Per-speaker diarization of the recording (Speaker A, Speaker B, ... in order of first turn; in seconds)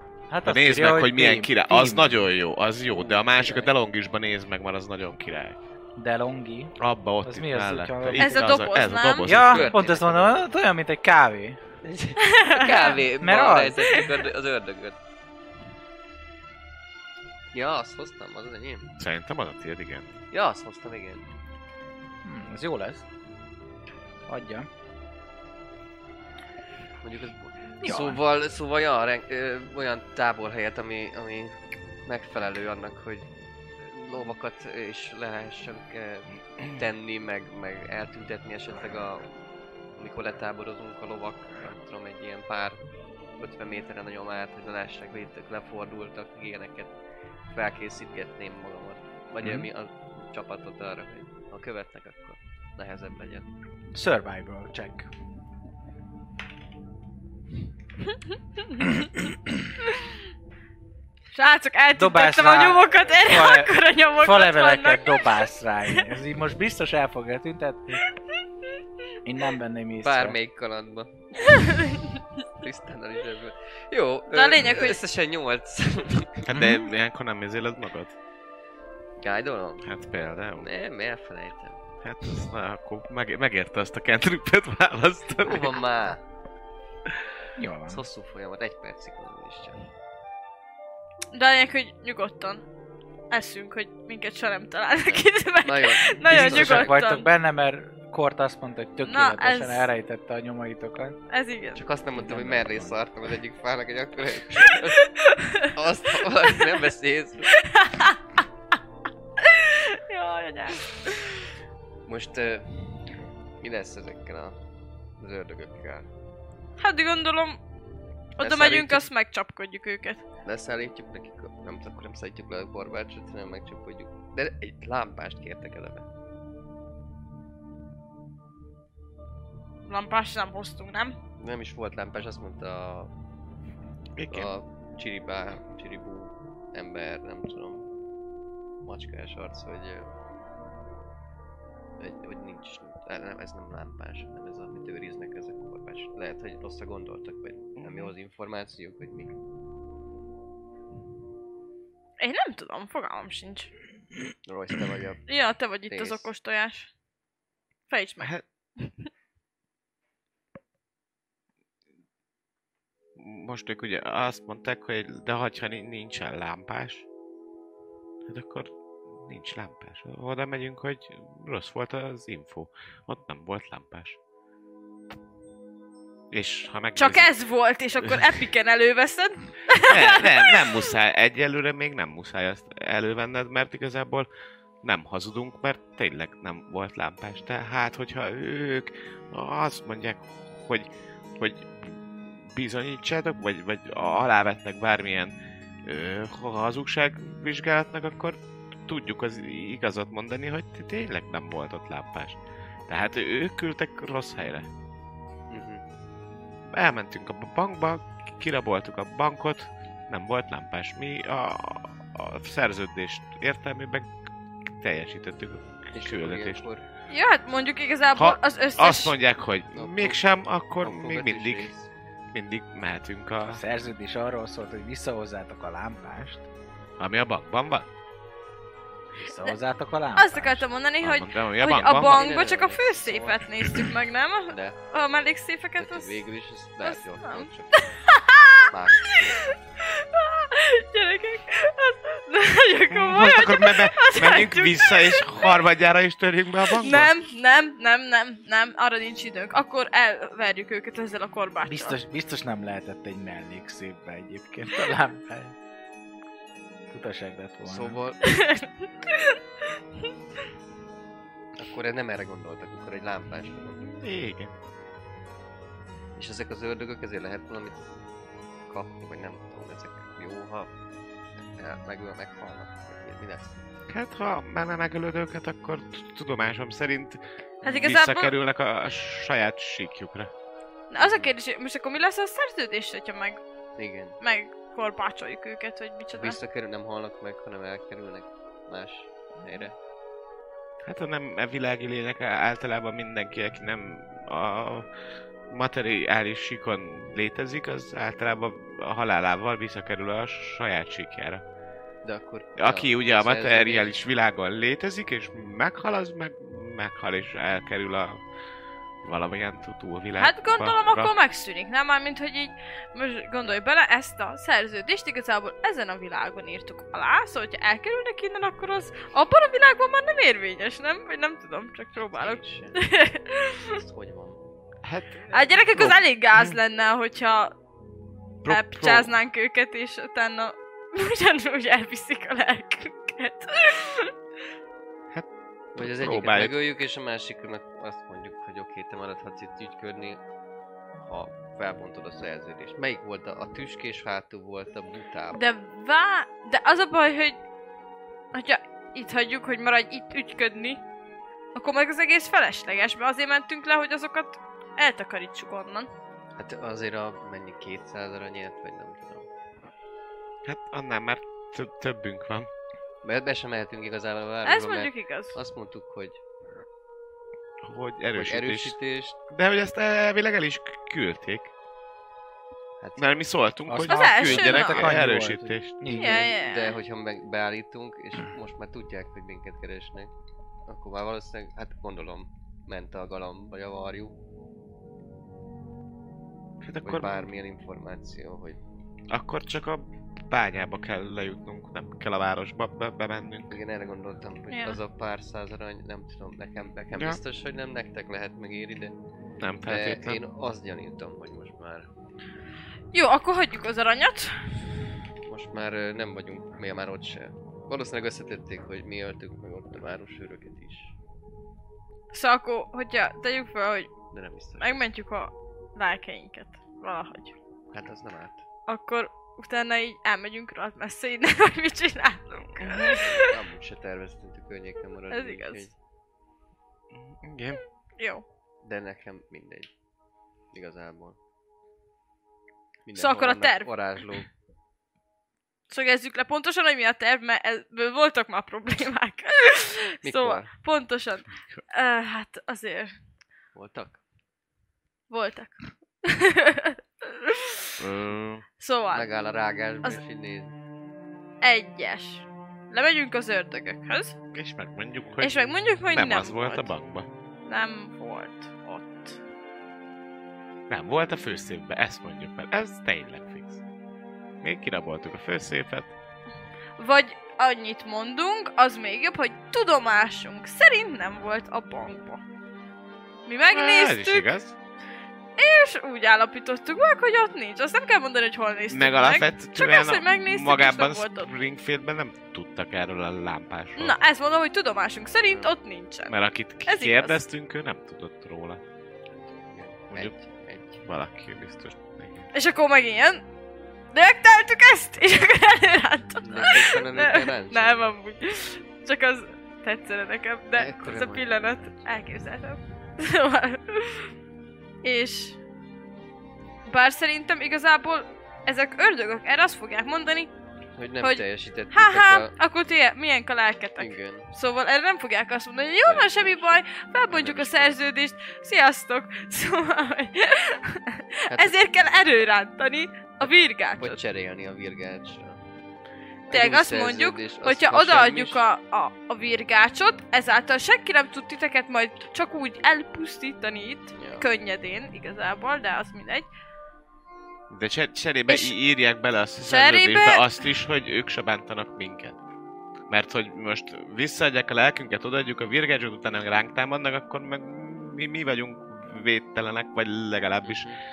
Speaker A: 0.3-2.2, 6.0-8.6, 9.2-11.6, 13.0-14.0, 22.2-23.0, 24.3-24.7, 27.8-28.2, 49.4-49.7, 53.9-55.1, 62.0-68.0, 69.2-70.4, 76.5-76.9, 87.6-88.0, 96.2-101.2, 102.2-103.0, 223.5-226.5, 229.1-230.7, 251.6-255.5, 256.9-258.0, 373.7-376.3
Speaker B: 0.4-5.6, 6.8-9.8, 19.0-20.1, 76.5-78.1, 79.8-80.7, 82.0-85.8, 134.2-134.5, 147.8-148.1, 163.2-167.1, 168.2-174.2, 176.3-177.3, 178.0-178.3, 179.9-184.3, 184.8-202.4, 202.9-204.7, 206.7-214.1, 214.7-216.7, 218.2-221.7, 222.3-223.6, 227.0-227.9, 231.0-232.3, 242.9-247.1, 263.7-264.5, 273.9-280.3, 290.8-294.9, 295.5-301.4, 302.6-308.2, 309.0-311.1, 324.8-326.6, 328.4-329.1, 335.1-336.8, 360.4-362.5, 367.6-368.8, 369.3-371.5, 373.0-375.8, 386.6-387.3, 389.1-393.6, 396.9-397.2, 399.4-400.2, 422.6-423.0, 426.9-427.6, 447.8-448.4, 454.3-455.4, 455.9-457.1, 460.7-463.6, 464.4-465.9, 473.5-474.6, 478.7-483.9, 486.1-488.6, 490.8-492.3, 537.5-542.2, 542.9-550.7
Speaker C: 2.9-3.7, 9.5-10.4, 11.8-15.0, 17.5-18.9, 20.3-21.2, 27.0-39.3, 40.0-42.8, 43.4-46.9, 47.5-53.5, 70.0-71.8, 72.6-76.5, 79.2-79.8, 80.6-81.8, 85.4-86.2, 87.9-89.8, 95.1-96.9, 101.8-105.1, 105.7-107.5, 112.1-114.6, 115.2-116.1, 118.4-119.1, 120.4-126.1, 131.4-133.1, 134.3-137.8, 138.8-140.1, 142.0-149.3, 154.5-155.2, 155.9-156.3, 205.5-205.8, 215.9-216.8, 219.8-220.2, 220.8-221.9, 231.9-233.4, 234.5-234.8, 235.8-237.9, 238.7-239.6, 257.6-258.2, 261.6-263.9, 266.2-267.9, 268.7-270.7, 271.6-273.6, 281.0-281.3, 283.8-284.2, 286.2-289.8, 302.0-303.9, 322.0-322.8, 323.7-324.4, 335.8-340.2, 341.0-345.4, 356.4-359.3, 363.0-366.2, 368.1-369.2, 372.8-373.1, 376.1-380.1, 380.7-384.1, 386.8-388.6, 393.5-398.9, 399.7-401.9, 405.3-410.9, 414.1-414.9, 417.7-418.4, 422.9-425.7, 428.6-429.7, 430.5-431.2, 432.8-434.3, 440.0-440.5, 443.5-444.0, 448.9-450.5, 489.1-490.8, 496.2-497.8, 500.6-501.8, 510.8-512.3, 513.8-514.3, 515.8-517.8, 523.2-525.4, 526.3-528.4, 534.0-534.2, 550.4-550.8
Speaker D: 8.2-9.4, 12.2-13.0, 13.8-14.1, 61.3-65.3, 71.5-72.2, 74.3-75.0, 91.3-92.6, 93.3-97.3, 99.0-99.9, 101.3-101.8, 104.7-105.8, 107.5-108.2, 109.4-111.2, 116.8-117.6, 118.4-120.2, 129.9-131.2, 152.2-153.7, 155.3-156.9, 157.9-158.9, 177.0-180.5, 217.1-219.1, 230.2-236.2, 236.8-245.6, 246.8-252.0, 258.2-259.4, 277.6-278.3, 280.9-283.4, 284.2-286.4, 310.2-323.8, 325.3-327.5, 328.4-334.1, 345.3-347.4, 348.3-350.8, 351.5-355.9, 364.4-365.4, 373.9-374.9, 375.9-376.8, 394.5-394.8, 402.9-404.3, 412.1-413.9, 414.6-417.4, 418.7-423.3, 425.1-425.7, 428.0-428.2, 432.9-433.7, 435.7-442.9, 445.1-447.7, 448.6-449.1, 451.4-454.1, 455.2-456.7, 457.5-459.2, 466.8-472.2, 473.2-474.2, 475.4-481.3, 483.8-486.1, 486.7-487.2, 492.3-493.2, 493.9-504.1, 504.8-505.4, 506.7-510.3, 511.0-524.0, 526.3-536.3, 538.3-538.5, 539.4-540.5